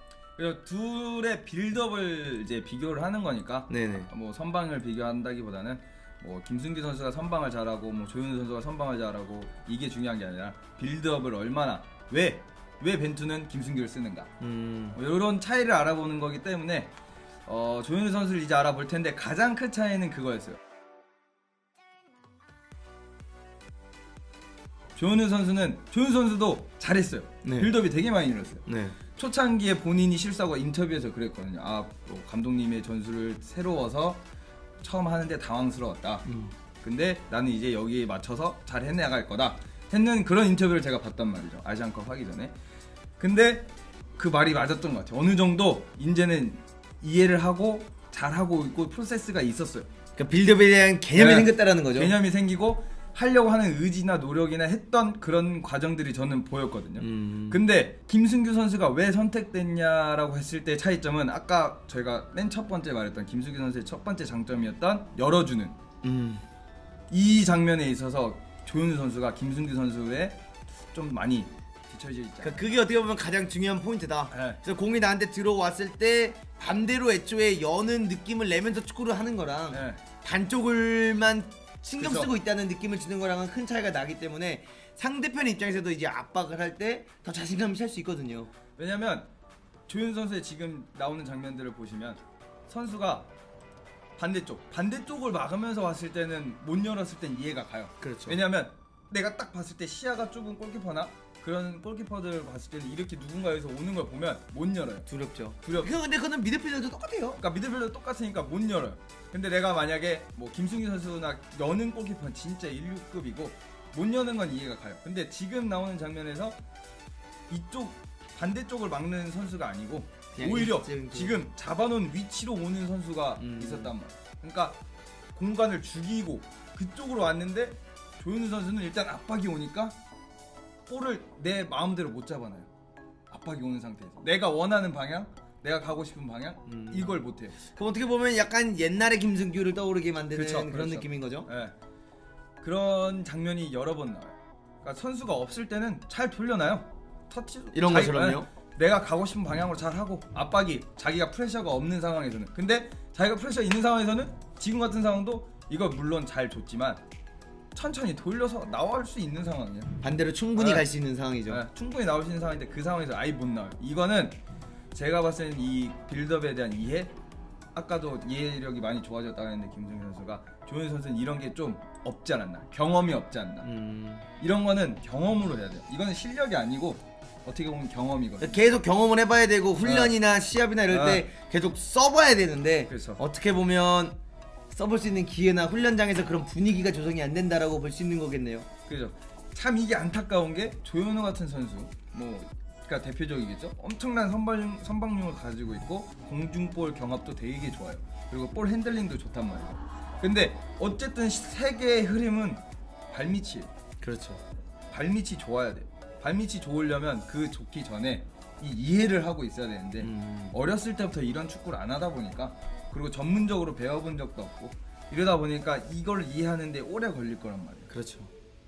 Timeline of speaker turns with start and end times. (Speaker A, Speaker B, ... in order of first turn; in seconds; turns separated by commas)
Speaker A: 0.4-14.3, Speaker B: 3.7-4.1, Speaker B: 14.4-15.0, Speaker A: 14.9-16.9, Speaker A: 17.5-20.6, Speaker A: 25.0-28.6, Speaker B: 27.4-27.7, Speaker B: 28.7-29.0, Speaker A: 29.2-34.2, Speaker A: 34.8-36.3, Speaker B: 36.3-36.5, Speaker A: 36.8-42.5, Speaker A: 43.2-49.9, Speaker B: 50.2-52.1, Speaker A: 51.2-65.8, Speaker B: 57.0-57.6, Speaker B: 66.0-66.4, Speaker A: 67.1-70.4, Speaker A: 70.9-72.7, Speaker B: 72.4-88.5, Speaker A: 74.3-74.6, Speaker A: 79.7-80.0, Speaker A: 82.0-82.3, Speaker A: 88.8-89.3, Speaker A: 89.9-93.3, Speaker A: 94.2-105.1, Speaker B: 98.0-98.4, Speaker B: 105.1-107.4, Speaker A: 105.6-105.9, Speaker A: 107.4-116.6, Speaker A: 117.5-124.8, Speaker B: 120.3-121.5, Speaker B: 123.4-123.9, Speaker A: 125.3-130.0, Speaker A: 130.9-132.7, Speaker A: 133.3-137.6, Speaker B: 136.7-141.5, Speaker A: 140.3-141.7, Speaker A: 142.6-157.0, Speaker B: 147.7-148.5, Speaker A: 157.7-159.9, Speaker B: 160.0-161.6, Speaker A: 160.6-160.9, Speaker A: 161.5-164.4, Speaker A: 164.9-167.1, Speaker A: 167.7-173.7, Speaker B: 173.6-174.2, Speaker A: 174.4-178.7, Speaker B: 178.4-184.2, Speaker A: 179.8-180.2, Speaker A: 180.9-181.3, Speaker A: 182.9-183.2, Speaker B: 184.7-188.7, Speaker A: 188.9-202.6, Speaker A: 203.1-203.7, Speaker B: 204.0-204.4, Speaker A: 204.9-217.9, Speaker B: 210.0-210.6, Speaker B: 217.9-218.3